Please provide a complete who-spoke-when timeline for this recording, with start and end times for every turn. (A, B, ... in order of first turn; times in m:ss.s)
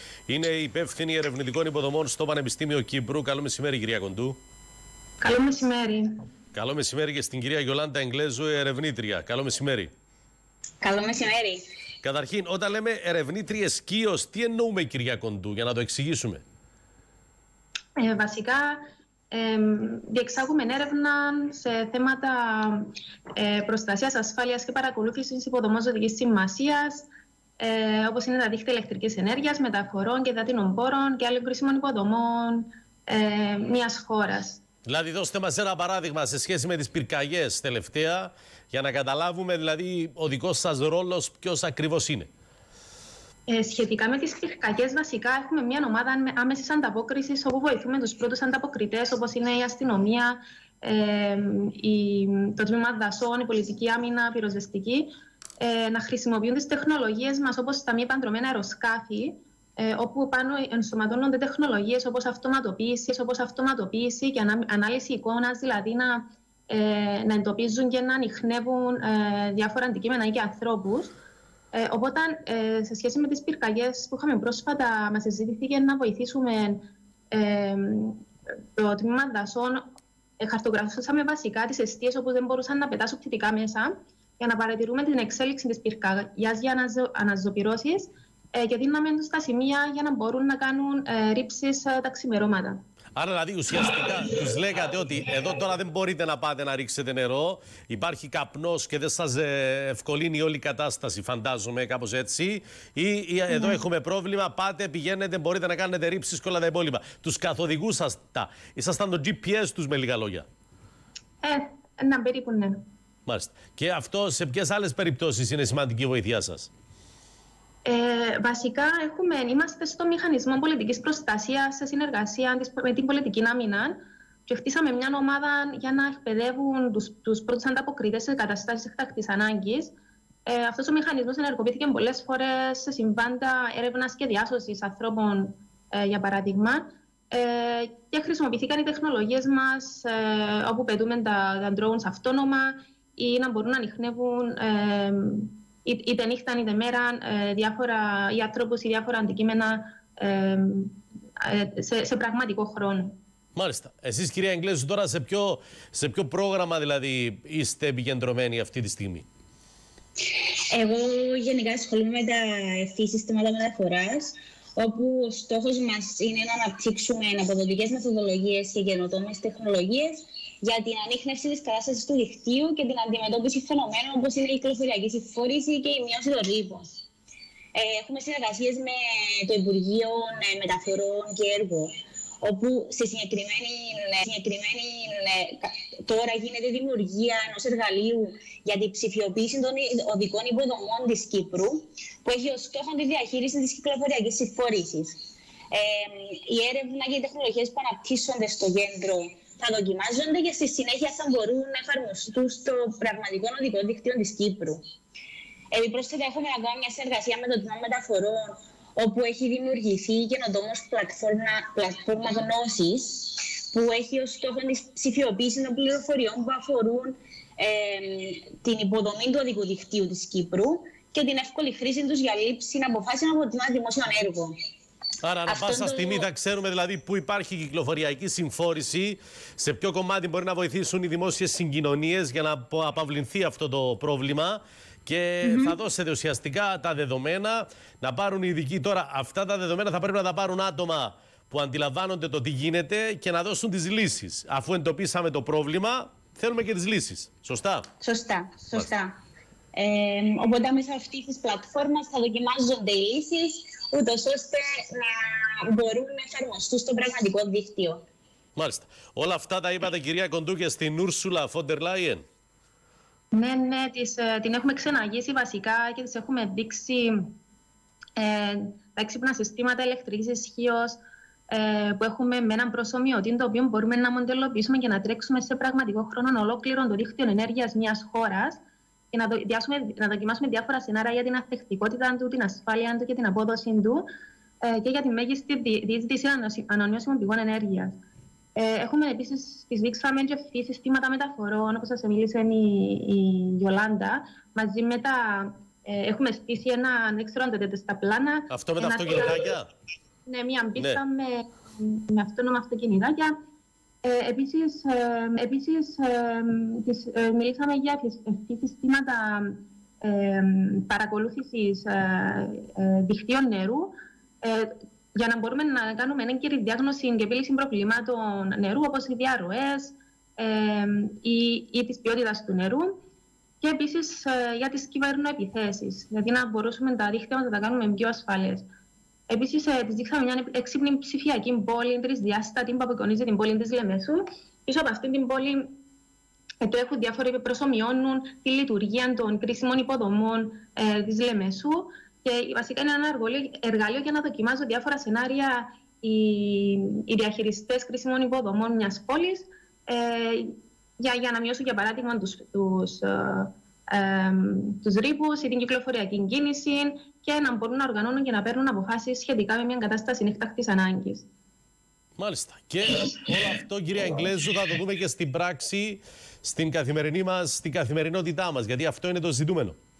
0:00.3-0:04.4 A
0:05.2-0:06.1 B
0:06.5-0:09.9 A
0:10.8-0:11.6 C
0:12.0-0:16.4 A
0:18.0-0:18.8 B
0:19.3-0:27.1 B
0:27.6-0:34.6 B
0:34.8-0:42.3 A
0:43.5-1:11.1 B
1:11.7-1:18.2 B
1:18.8-1:19.8 B
1:20.4-1:32.8 B
1:33.2-1:50.5 A
1:43.5-1:43.8 B
1:51.4-1:52.8 B
1:53.3-1:56.7 A
1:57.8-2:09.9 B
2:10.4-2:33.2 B
2:33.6-2:39.2 A
2:40.7-2:57.0 C
2:57.7-3:24.8 C
3:25.7-3:44.5 C
3:45.2-4:07.9 A
3:45.5-3:46.3 C
4:08.0-4:09.2 C
4:09.7-4:18.0 C
4:18.6-4:22.2 A
4:23.3-4:27.3 B
4:28.2-4:38.6 B
4:39.1-4:44.0 B
4:44.6-4:48.0 B
4:48.6-4:59.5 B
4:58.5-4:59.7 A
5:00.2-5:03.3 B
5:04.0-5:23.0 B
5:23.6-5:28.6 B
5:29.3-5:35.7 B
5:36.6-6:01.2 B
6:02.2-6:09.8 A